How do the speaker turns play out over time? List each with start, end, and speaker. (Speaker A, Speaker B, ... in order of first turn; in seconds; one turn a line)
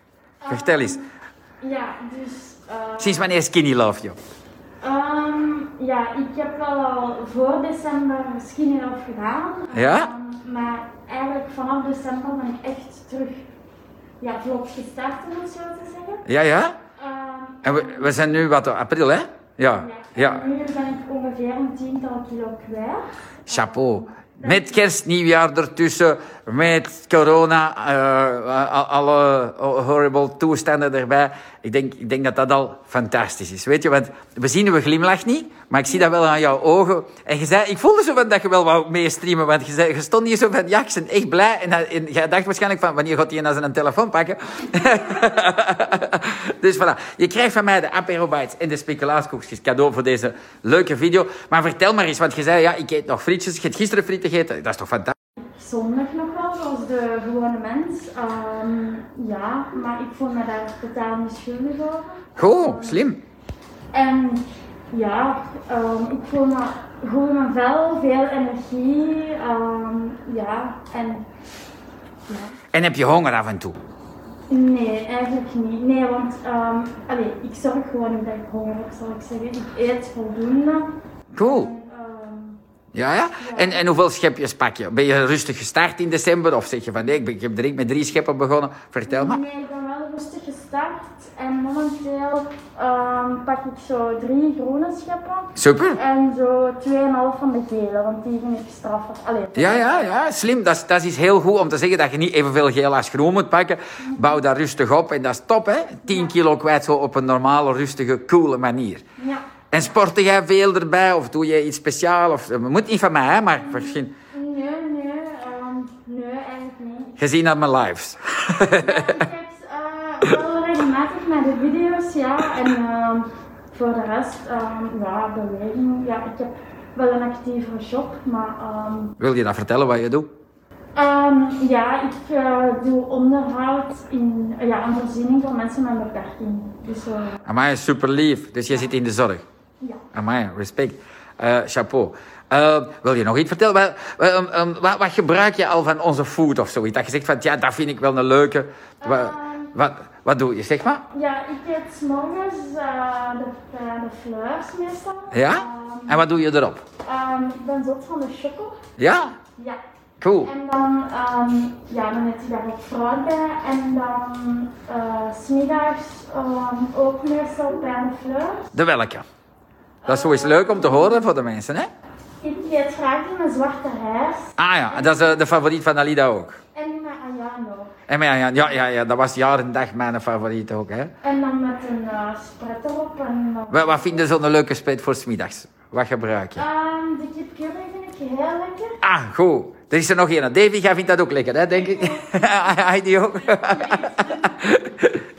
Speaker A: 0.4-1.1
Speaker B: 0.5-1.0
Speaker A: 1.6-3.3
Speaker B: 3.0-4.2
Speaker A: 4.8-13.4
Speaker B: 9.7-10.1
Speaker A: 14.2-16.2
Speaker B: 16.2-16.8
Speaker A: 17.0-18.4
Speaker B: 17.6-20.4
Speaker A: 19.7-24.8
Speaker B: 23.5-55.1
Speaker A: 55.4-63.0
Speaker B: 62.4-63.2
Speaker A: 63.9-71.2
Speaker A: 72.3-72.6
Speaker B: 72.7-73.8
Speaker A: 74.5-82.6
Speaker B: 81.3-81.7
Speaker B: 82.9-89.4
Speaker A: 83.4-83.8
Speaker A: 89.1-100.1
Speaker B: 95.6-96.0
Speaker B: 99.5-109.0
Speaker A: 104.1-104.3
Speaker A: 106.0-106.3
Speaker B: 109.7-114.1
Speaker A: 113.5-117.2
Speaker B: 117.2-119.3
Speaker A: 118.6-129.1
Speaker B: 129.2-130.3
Speaker A: 130.9-137.4
Speaker B: 137.4-139.4
Speaker A: 139.8-140.1
Speaker B: 140.1-151.0
Speaker A: 149.0-149.7
Speaker A: 151.1-156.2
Speaker B: 155.3-156.8
Speaker A: 157.0-158.8
Speaker B: 159.0-159.3
Speaker B: 160.2-160.5
Speaker A: 160.4-168.7
Speaker B: 168.7-169.2
Speaker A: 170.0-171.2
Speaker B: 170.1-171.9
Speaker A: 172.4-175.4
Speaker B: 174.6-176.6
Speaker A: 176.7-177.9
Speaker B: 178.1-181.1
Speaker A: 181.2-184.2
Speaker B: 183.7-186.6
Speaker A: 186.5-188.9
Speaker B: 189.0-195.3
Speaker A: 191.7-192.5
Speaker A: 193.5-194.7